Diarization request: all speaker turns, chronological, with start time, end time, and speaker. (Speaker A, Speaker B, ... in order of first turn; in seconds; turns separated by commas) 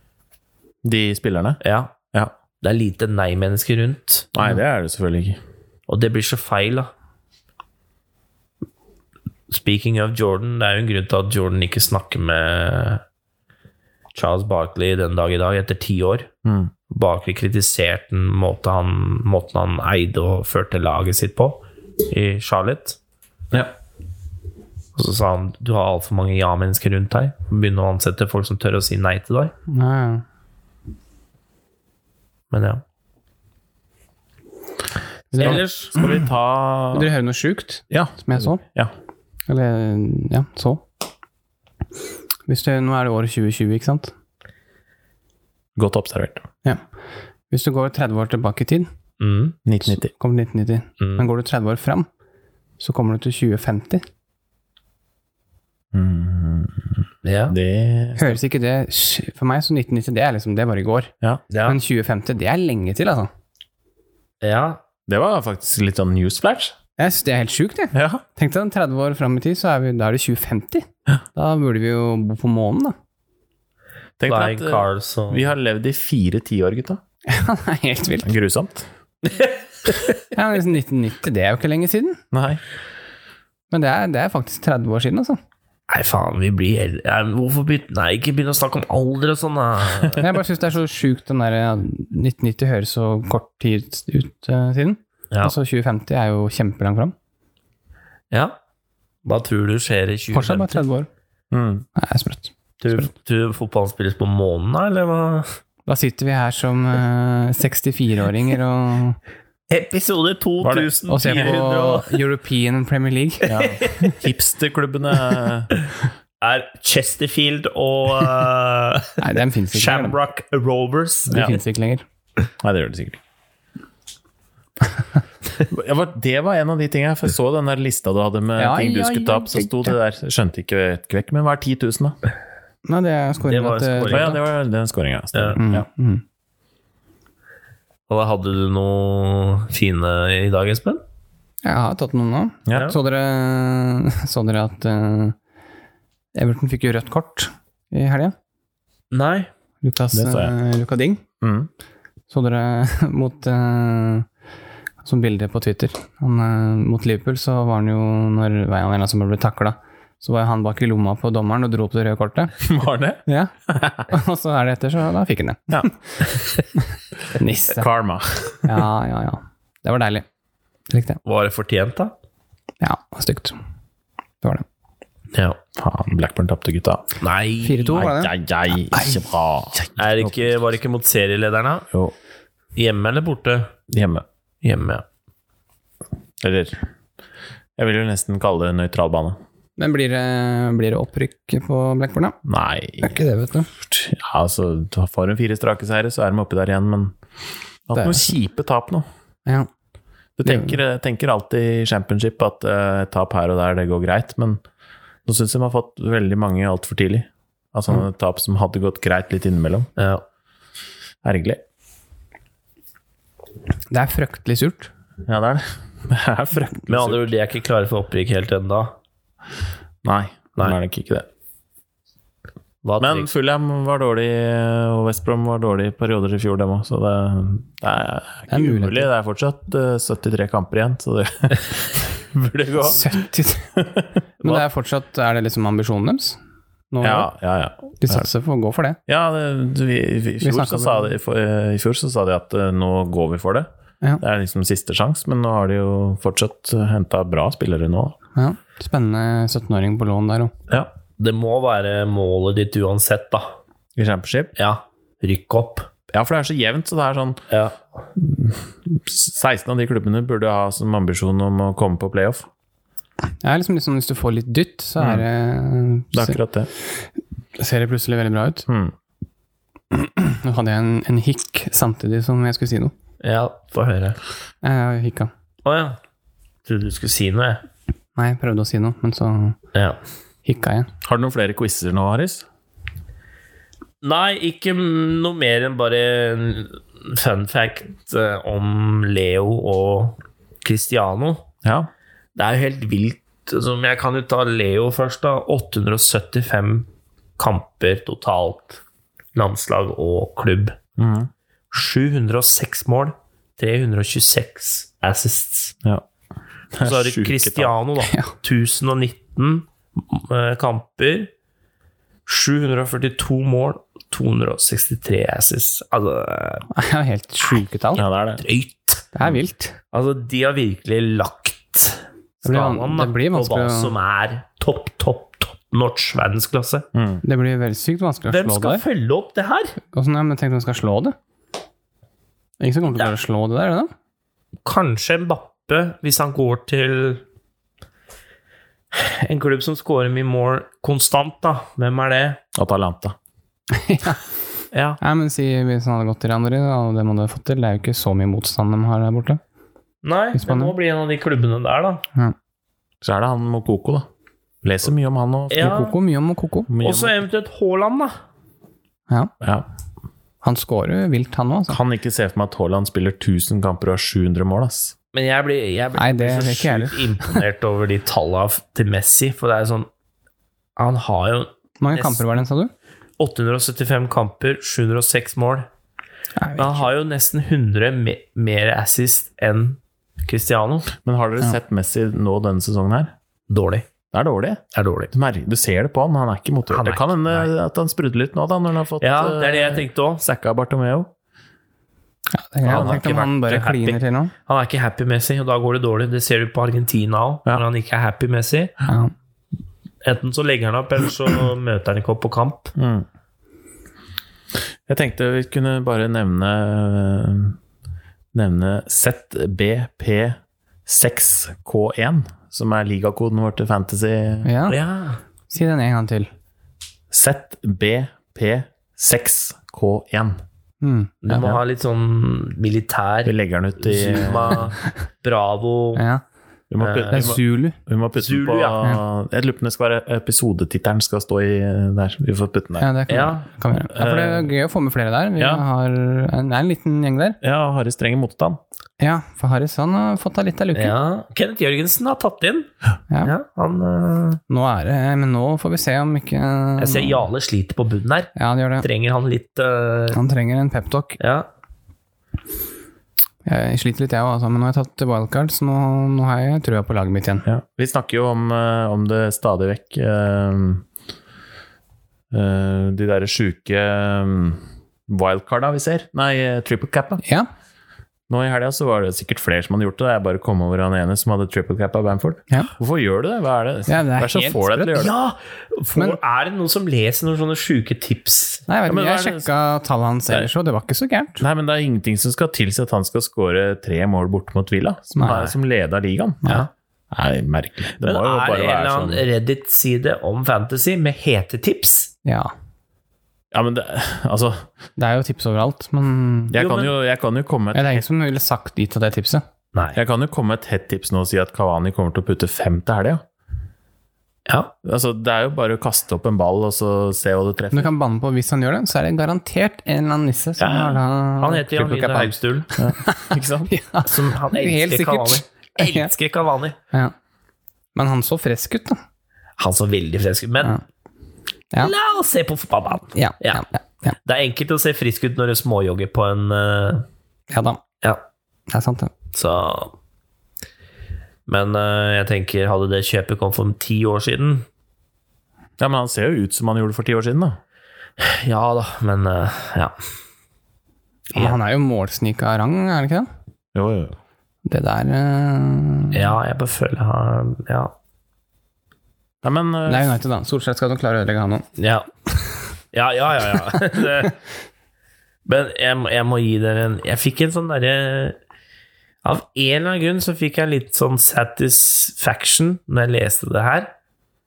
Speaker A: 0.8-1.6, Speaker B: 1.6-1.9, Speaker B: 2.6-4.3, Speaker A: 4.3-5.4, Speaker B: 5.9-6.9, Speaker B: 9.5-13.0, Speaker B: 14.1-16.3, Speaker A: 16.4-16.7, Speaker B: 16.9-23.0, Speaker B: 24.9-29.5, Speaker C: 29.7-30.2, Speaker B: 32.5-32.8, Speaker C: 35.3-36.2, Speaker B: 35.4-35.9, Speaker A: 35.4-37.1, Speaker C: 36.9-38.6, Speaker A: 37.9-38.9, Speaker C: 39.5-40.8, Speaker C: 42.5-44.1, Speaker A: 45.8-46.5, Speaker C: 47.5-48.9, Speaker B: 49.2-49.6, Speaker A: 49.6-50.1, Speaker C: 49.9-52.1, Speaker B: 51.0-51.3, Speaker C: 52.8-54.0, Speaker A: 55.9-56.9, Speaker B: 57.2-57.5, Speaker A: 57.5-58.4, Speaker C: 58.2-61.1, Speaker B: 61.5-61.8, Speaker C: 61.6-63.3, Speaker B: 64.4-64.8, Speaker A: 65.1-66.7, Speaker C: 67.0-72.9, Speaker A: 67.9-68.2, Speaker A: 74.2-77.0, Speaker B: 74.2-75.5, Speaker C: 77.3-78.3, Speaker A: 78.2-78.9, Speaker C: 80.3-82.2, Speaker A: 82.3-82.6, Speaker C: 83.7-85.4, Speaker B: 85.9-90.2, Speaker C: 90.2-97.1, Speaker B: 98.3-98.5, Speaker B: 99.2-100.8, Speaker C: 100.3-101.1, Speaker A: 101.5-101.9, Speaker C: 102.0-103.1, Speaker B: 102.8-105.6, Speaker C: 105.9-109.2, Speaker B: 109.7-112.2, Speaker A: 110.6-110.9, Speaker C: 111.1-113.5, Speaker B: 113.5-114.2, Speaker A: 113.5-115.7, Speaker B: 116.4-119.2, Speaker C: 119.2-120.2, Speaker B: 119.7-121.6, Speaker A: 121.3-121.5, Speaker C: 121.3-122.0, Speaker A: 122.6-123.2, Speaker A: 125.7-132.1, Speaker C: 128.6-129.9, Speaker C: 132.8-134.4, Speaker B: 133.5-134.4, Speaker A: 134.1-135.8, Speaker C: 135.6-136.2, Speaker B: 138.1-141.0, Speaker C: 141.6-145.4, Speaker C: 146.3-148.3, Speaker B: 149.1-149.5, Speaker C: 149.8-151.2, Speaker A: 150.1-150.5, Speaker A: 151.4-151.7, Speaker C: 152.3-154.3, Speaker C: 155.0-162.6, Speaker A: 162.6-164.1, Speaker C: 163.2-163.5, Speaker C: 164.1-166.2, Speaker C: 167.3-167.9, Speaker A: 167.7-168.8, Speaker C: 168.6-170.2, Speaker C: 170.9-171.2, Speaker B: 171.2-172.1, Speaker C: 172.8-173.6, Speaker B: 175.3-175.6, Speaker A: 175.8-177.1, Speaker B: 177.2-178.1, Speaker C: 177.6-178.3, Speaker A: 177.9-180.5, Speaker C: 178.9-179.2, Speaker B: 180.0-181.8, Speaker B: 182.7-183.7, Speaker A: 183.9-184.2, Speaker B: 184.6-185.0, Speaker A: 186.4-186.8, Speaker A: 187.8-189.4, Speaker C: 189.8-192.4, Speaker A: 192.4-193.2, Speaker C: 193.0-193.7, Speaker A: 193.8-197.2, Speaker A: 197.9-199.0, Speaker C: 197.9-198.3, Speaker A: 200.4-204.6, Speaker C: 200.4-200.8, Speaker A: 205.2-209.9, Speaker B: 210.0-210.2, Speaker A: 211.2-211.6, Speaker C: 213.9-214.9, Speaker A: 215.3-217.3, Speaker B: 216.9-218.9, Speaker A: 220.0-221.3, Speaker B: 222.8-223.2, Speaker A: 223.0-233.1, Speaker C: 228.5-229.1, Speaker C: 232.8-233.7, Speaker A: 233.8-234.6, Speaker C: 234.4-236.4, Speaker C: 236.9-237.3, Speaker A: 237.0-238.3, Speaker C: 238.0-239.0, Speaker A: 239.1-243.7, Speaker C: 240.4-241.1, Speaker A: 244.2-248.2, Speaker C: 248.3-250.5, Speaker B: 251.2-253.5, Speaker A: 253.9-254.5, Speaker B: 254.6-255.9, Speaker A: 256.1-257.4, Speaker B: 257.5-257.8, Speaker A: 258.1-262.5, Speaker C: 263.4-266.4, Speaker A: 265.0-265.2, Speaker A: 266.1-266.7, Speaker C: 267.6-268.6, Speaker A: 268.7-268.9, Speaker C: 269.9-272.9, Speaker B: 273.2-274.2, Speaker C: 274.6-275.3, Speaker B: 275.6-276.0, Speaker B: 276.6-277.6, Speaker C: 278.2-279.6, Speaker C: 280.4-280.9, Speaker A: 281.0-282.4, Speaker B: 284.0-291.5, Speaker A: 291.6-291.9, Speaker B: 292.3-298.8, Speaker B: 299.3-300.8, Speaker A: 301.0-301.3, Speaker B: 301.7-305.7, Speaker A: 306.7-307.7, Speaker B: 306.8-311.3, Speaker C: 308.0-308.3, Speaker B: 312.2-316.6, Speaker C: 316.7-318.0, Speaker A: 317.9-318.4, Speaker B: 318.4-319.1, Speaker C: 319.1-319.8, Speaker B: 319.9-326.8, Speaker C: 322.4-323.9, Speaker A: 326.9-327.2, Speaker C: 327.2-328.8, Speaker B: 328.3-329.8, Speaker C: 329.9-331.1, Speaker C: 332.6-333.9, Speaker B: 334.6-337.2, Speaker B: 338.9-342.4, Speaker A: 342.5-343.1, Speaker C: 343.7-344.2, Speaker B: 344.7-345.0, Speaker C: 345.0-349.4, Speaker B: 350.0-352.0, Speaker C: 350.3-350.7, Speaker A: 353.0-354.1, Speaker A: 354.6-355.8, Speaker B: 355.5-355.9, Speaker C: 355.6-356.7, Speaker A: 356.7-357.1, Speaker B: 356.8-358.1, Speaker C: 360.4-361.8, Speaker A: 361.7-364.9, Speaker B: 365.1-369.9, Speaker C: 366.0-367.4, Speaker B: 370.8-372.2, Speaker C: 371.8-372.7, Speaker B: 373.2-375.7, Speaker C: 376.4-376.9, Speaker B: 376.6-380.9, Speaker A: 381.0-383.1, Speaker B: 383.5-383.9, Speaker A: 384.1-391.1, Speaker B: 384.7-385.1, Speaker B: 386.7-387.5, Speaker B: 389.0-390.2, Speaker C: 392.3-394.3, Speaker B: 392.6-398.7, Speaker A: 392.6-393.0, Speaker C: 398.9-399.1, Speaker B: 400.0-402.7, Speaker A: 402.8-403.1, Speaker A: 404.9-407.6, Speaker A: 408.3-414.5, Speaker C: 414.4-414.8, Speaker B: 414.7-415.2, Speaker C: 415.5-416.3, Speaker A: 417.1-420.4, Speaker C: 420.8-421.4, Speaker B: 421.2-426.0, Speaker A: 421.3-421.6, Speaker A: 423.2-424.7, Speaker C: 425.9-426.2, Speaker A: 426.7-432.9, Speaker B: 426.8-427.4, Speaker C: 427.1-427.8, Speaker B: 428.2-428.9, Speaker C: 432.8-437.4, Speaker B: 433.1-433.5, Speaker A: 433.9-434.5, Speaker A: 435.4-435.6, Speaker A: 437.4-438.6, Speaker C: 439.0-440.9, Speaker B: 440.7-442.7, Speaker B: 443.2-444.4, Speaker C: 444.5-447.2, Speaker B: 446.8-450.2, Speaker C: 448.4-448.9, Speaker C: 450.1-451.2, Speaker B: 451.2-451.4, Speaker C: 453.4-457.4, Speaker A: 457.4-460.8, Speaker A: 462.3-467.2, Speaker C: 467.2-467.5, Speaker A: 468.3-475.1, Speaker C: 473.9-474.9, Speaker B: 474.9-478.6, Speaker C: 478.7-481.4, Speaker A: 478.9-479.5, Speaker A: 481.4-486.6, Speaker C: 485.1-485.4, Speaker A: 487.1-489.2, Speaker B: 488.0-492.1, Speaker C: 492.2-492.5, Speaker A: 493.5-494.6, Speaker C: 495.0-496.6, Speaker A: 496.5-498.1, Speaker B: 496.5-496.9, Speaker C: 497.7-499.4, Speaker B: 499.7-500.0, Speaker A: 499.9-503.2, Speaker B: 504.5-504.7, Speaker A: 504.8-507.9, Speaker C: 507.7-516.1, Speaker B: 510.6-512.7, Speaker A: 512.8-513.7, Speaker B: 514.0-516.8, Speaker C: 517.9-519.0, Speaker B: 519.6-520.8, Speaker B: 521.8-523.6, Speaker C: 523.1-524.1, Speaker B: 524.2-527.0, Speaker C: 527.5-527.8, Speaker C: 528.7-529.1, Speaker B: 529.3-529.9, Speaker B: 531.5-534.6, Speaker A: 535.8-537.6, Speaker B: 538.2-539.9, Speaker C: 541.3-543.3, Speaker A: 543.7-544.2, Speaker C: 544.6-546.3, Speaker B: 546.1-547.9, Speaker A: 549.4-550.1, Speaker C: 549.9-551.6, Speaker B: 551.8-552.1, Speaker B: 552.9-554.4, Speaker B: 555.4-558.4, Speaker B: 559.2-563.9